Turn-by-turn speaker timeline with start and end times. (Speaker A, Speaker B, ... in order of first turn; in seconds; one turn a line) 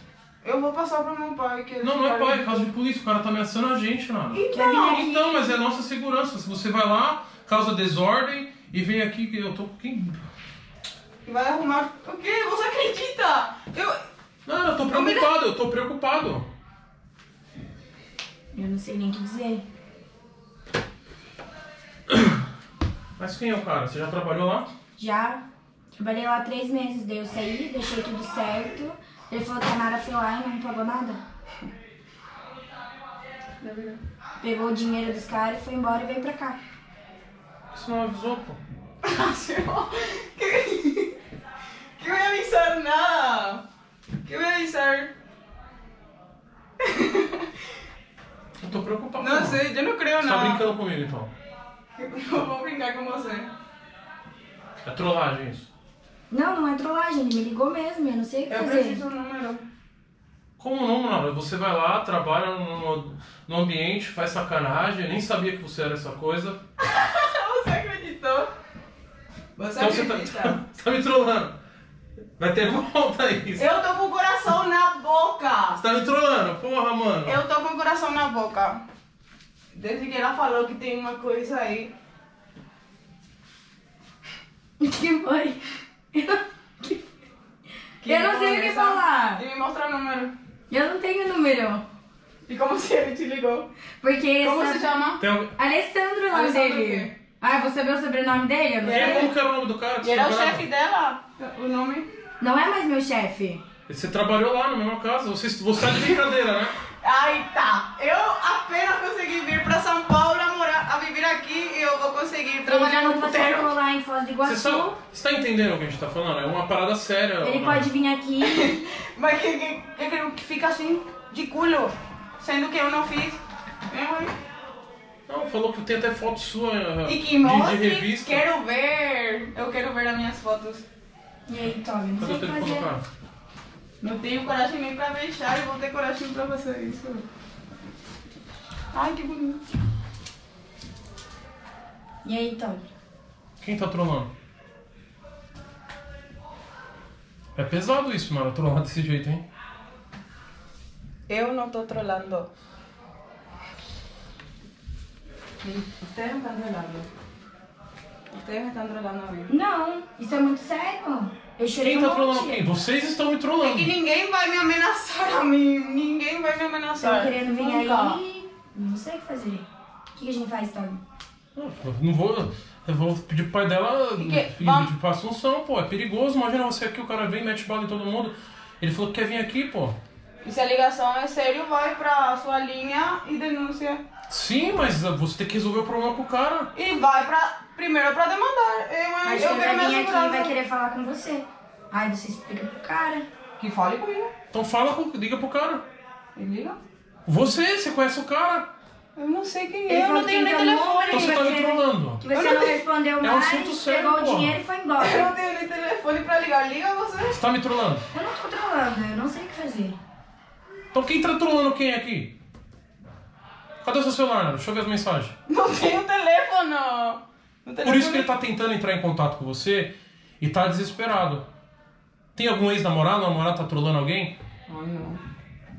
Speaker A: 0.4-2.7
Speaker B: 1.8-10.2
Speaker A: 4.3-5.2
Speaker C: 4.5-5.4
Speaker A: 11.2-14.0
Speaker B: 14.5-16.5
Speaker A: 14.9-15.3
Speaker C: 18.5-19.6
Speaker B: 22.1-22.4
Speaker B: 23.2-24.7
Speaker C: 25.0-31.2
Speaker A: 33.6-34.0
Speaker C: 34.4-36.6
Speaker B: 37.7-38.6
Speaker A: 39.0-41.2
Speaker A: 42.0-43.6
Speaker A: 44.2-45.1
Speaker A: 46.8-47.5
Speaker B: 48.6-49.6
Speaker A: 49.2-50.6
Speaker B: 50.2-51.3
Speaker A: 52.0-53.5
Speaker B: 54.8-55.7
Speaker C: 56.3-59.0
Speaker A: 58.5-59.6
Speaker B: 60.6-66.6
Speaker A: 66.8-68.5
Speaker A: 69.6-70.6
Speaker B: 69.8-71.6
Speaker B: 72.4-73.7
Speaker A: 73.6-75.8
Speaker B: 75.8-77.4
Speaker A: 77.2-78.8
Speaker A: 79.7-81.9
Speaker C: 84.8-85.6
Speaker C: 86.1-87.0
Speaker A: 88.0-90.3
Speaker C: 88.0-89.5
Speaker C: 90.7-91.8
Speaker A: 92.5-93.7
Speaker C: 94.0-94.9
Speaker A: 94.4-95.2
Speaker B: 95.2-95.6
Speaker C: 95.6-99.3
Speaker A: 96.3-97.2
Speaker A: 98.8-99.3
Speaker B: 98.9-100.7
Speaker A: 100.0-102.1
Speaker C: 102.4-103.6
Speaker B: 103.9-106.8
Speaker A: 107.0-113.8
Speaker C: 112.7-115.0
Speaker B: 114.4-117.9
Speaker C: 117.4-118.8
Speaker A: 118.4-124.3
Speaker B: 125.3-128.4
Speaker A: 127.0-130.8
Speaker C: 131.5-132.9
Speaker B: 132.2-133.0
Speaker A: 134.0-137.2
Speaker A: 138.9-139.6
Speaker C: 142.2-142.9
Speaker B: 143.6-144.3
Speaker B: 147.6-149.5
Speaker A: 151.3-152.5
Speaker A: 155.6-157.1
Speaker A: 158.3-159.5
Speaker C: 159.5-162.6
Speaker B: 161.8-163.9
Speaker A: 163.6-168.2
Speaker C: 167.0-171.0
Speaker B: 171.6-180.0
Speaker A: 174.2-174.9
Speaker A: 180.4-184.0
Speaker B: 184.3-186.7
Speaker A: 186.8-190.6
Speaker C: 189.2-193.3
Speaker A: 193.6-194.3
Speaker B: 194.5-195.8
Speaker A: 196.4-196.8
Speaker B: 197.3-198.7
Speaker A: 199.2-201.5
Speaker C: 199.9-205.3
Speaker B: 201.1-202.2
Speaker A: 202.3-202.8
Speaker B: 203.2-204.6
Speaker A: 205.0-207.4
Speaker B: 207.3-208.1
Speaker C: 208.1-210.0
Speaker B: 210.9-212.3
Speaker B: 213.8-215.3
Speaker A: 215.5-218.3
Speaker B: 217.8-221.5
Speaker B: 222.3-224.3
Speaker A: 224.7-225.2